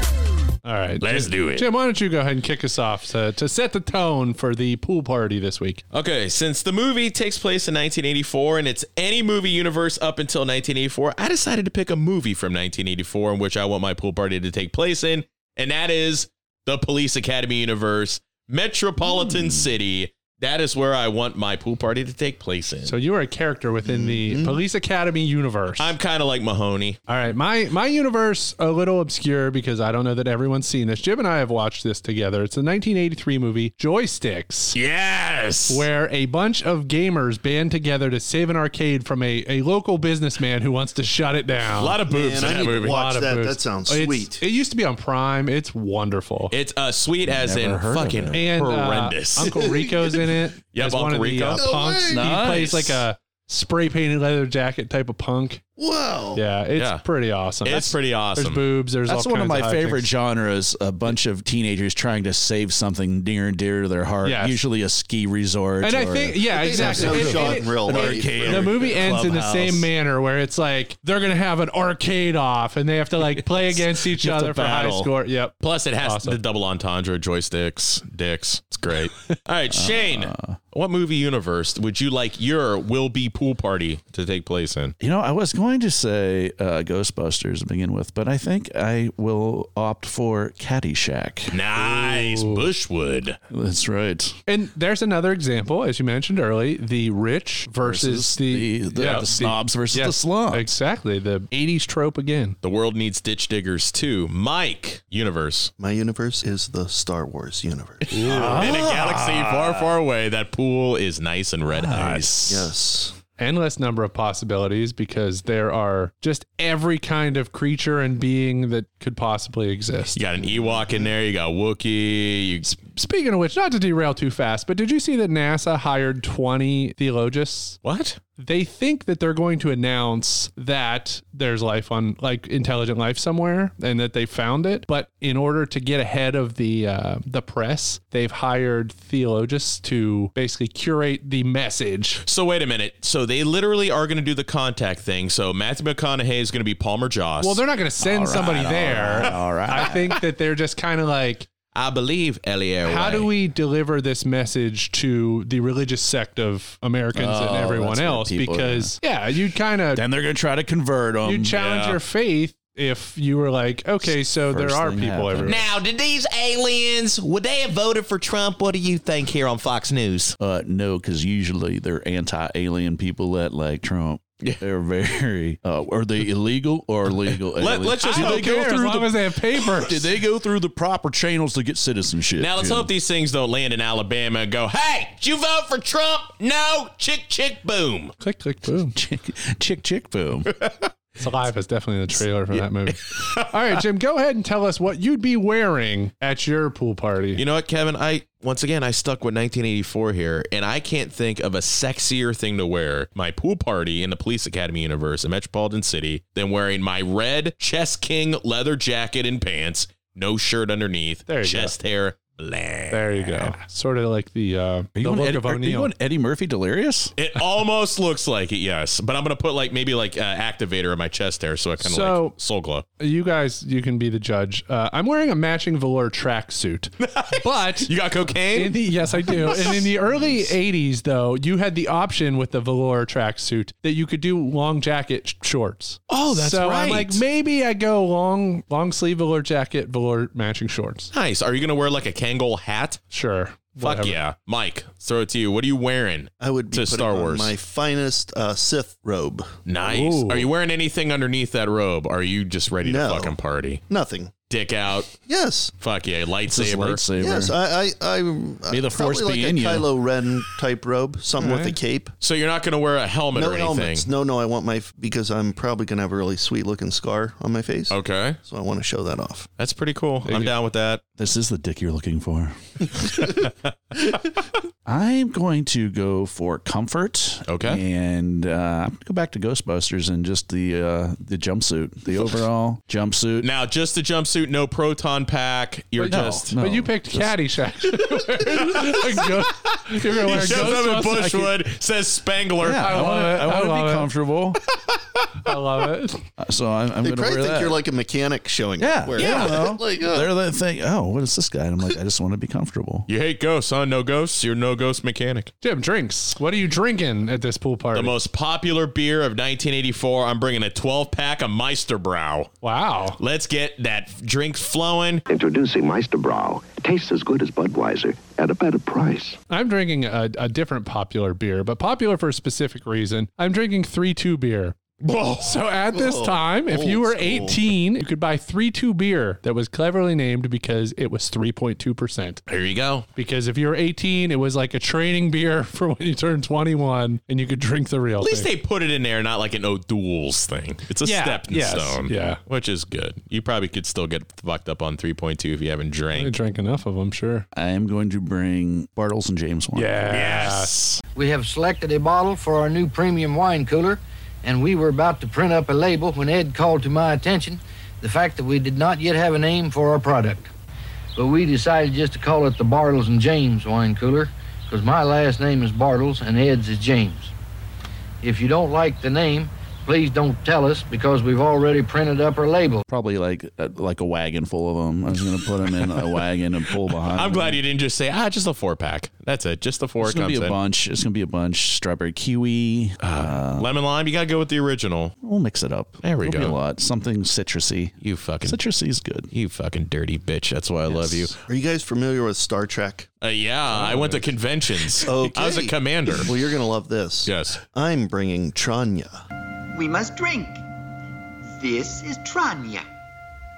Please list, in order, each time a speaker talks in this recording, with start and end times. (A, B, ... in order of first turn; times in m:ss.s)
0:00.6-0:05.8 A
0:01.0-0:01.6 B
0:05.9-0:22.9 B
0:19.0-0:19.6 C
0:22.8-0:25.9 A
0:23.8-0:24.6 D
0:25.8-0:27.0 B
0:27.1-0:34.8 A
0:34.7-0:35.8 B
0:35.7-0:46.5 A
0:41.8-0:43.0 B
0:42.1-0:44.4 D
0:46.5-0:49.6 B
0:47.2-0:48.4 C
0:48.3-0:55.6 A
0:50.7-0:51.6 B
0:51.5-0:52.4 D
0:52.1-0:53.0 C
0:55.8-0:56.4 D
0:56.3-1:00.1 A
0:56.8-0:57.0 B
0:57.6-0:58.6 B
0:59.1-1:09.9 C
1:04.2-1:04.6 A
1:05.8-1:16.4 A
1:06.5-1:09.5 D
1:13.2-1:15.1 C
1:15.6-1:24.9 B
1:19.7-1:20.6 C
1:25.0-1:31.6 C
1:31.5-1:33.4 B
1:32.0-1:32.6 A
1:33.5-1:34.3 C
1:34.5-1:42.6 A
1:37.8-1:40.6 C
1:39.0-1:39.2 B
1:42.6-1:45.7 B
1:45.8-1:48.1 D
1:48.2-1:48.7 A
1:48.2-1:49.8 C
1:48.2-1:52.3 B
1:51.7-1:52.7 C
1:52.4-1:53.1 D
1:53.4-2:00.2 A
2:00.1-2:02.7 B
2:02.6-2:07.8 A
2:07.8-2:08.2 B
2:08.4-2:22.2 A
2:22.2-2:27.6 B
2:27.4-2:31.5 A
2:28.0-2:30.1 C
2:31.7-2:33.3 B
2:32.8-2:40.0 A
2:37.1-2:38.9 C
2:39.9-2:41.5 C
2:41.2-2:45.6 A
2:41.5-2:42.0 B
2:44.0-2:45.7 C
2:45.4-2:50.3 B
2:50.4-3:02.9 C
2:57.6-2:58.6 B
2:58.0-3:00.0 A
3:02.4-3:08.1 B
3:08.2-3:08.9 A
3:08.9-3:10.5 C
3:11.2-3:17.4 A
3:13.0-3:13.5 B
3:17.4-3:33.5 B
3:31.3-3:31.7 A
3:32.9-3:35.9 A
3:35.0-3:37.1 C
3:37.2-3:42.8 B
3:41.8-3:42.3 A
3:43.0-3:47.9 A
3:47.0-3:48.7 B
3:48.5-4:01.1 A
3:49.2-3:49.9 B
3:56.1-3:57.2 B
4:01.1-4:03.0 B
4:03.1-4:04.2 A
4:03.8-4:07.5 B
4:06.4-4:09.5 D
4:09.6-4:13.8 B
4:09.9-4:10.5 A
4:12.8-4:13.3 D
4:13.9-4:14.3 D
4:14.5-4:15.1 B
4:15.2-4:15.7 D
4:15.8-4:17.0 B
4:16.5-4:17.5 C
4:17.2-4:22.1 D
4:18.7-4:19.9 C
4:21.4-4:21.7 A
4:22.2-4:24.1 B
4:23.3-4:29.5 D
4:27.9-4:28.4 B
4:29.6-4:31.0 B
4:30.2-4:30.5 A
4:31.2-4:33.0 C
4:34.8-4:43.5 C
4:37.5-4:37.8 B
4:43.4-4:46.5 B
4:46.0-4:47.3 C
4:46.5-4:51.5 A
4:48.4-4:53.0 B
4:50.4-4:51.4 C
4:52.6-4:54.6 C
4:52.8-4:54.1 A
4:55.4-4:56.2 A
4:56.4-4:57.8 C
4:57.0-5:00.3 D
4:58.8-5:03.1 C
4:59.2-4:59.6 B
5:03.1-5:05.5 B
5:05.6-5:08.1 A
5:07.9-5:12.5 B
5:12.6-5:13.2 A
5:13.2-5:15.2 B
5:15.3-5:19.4 E
5:19.5-5:24.8 A
5:25.0-5:25.5 B
5:25.4-5:32.4 A
5:25.9-5:27.6 D
5:32.5-5:33.0 B
5:33.2-5:38.5 A
5:38.2-5:46.3 B
5:41.0-5:42.4 A
5:46.1-5:47.4 A
5:47.5-5:49.9 C
5:49.7-5:50.7 A
5:50.1-5:51.0 B
5:51.2-6:00.5 F
6:01.2-6:07.3 F
6:08.2-6:12.8 F
6:12.9-6:17.6 C
6:17.0-6:20.6 B
6:20.0-6:23.7 C
6:23.0-6:25.1 B
6:25.2-6:29.3 C
6:26.0-6:26.6 B
6:28.0-6:28.6 B
6:29.3-6:31.3 B
6:30.8-6:31.3 C
6:31.5-6:33.1 D
6:33.2-6:36.3 B
6:35.0-6:39.2 D
6:37.2-6:37.6 B
6:39.7-6:40.6 G
6:41.5-6:42.9 G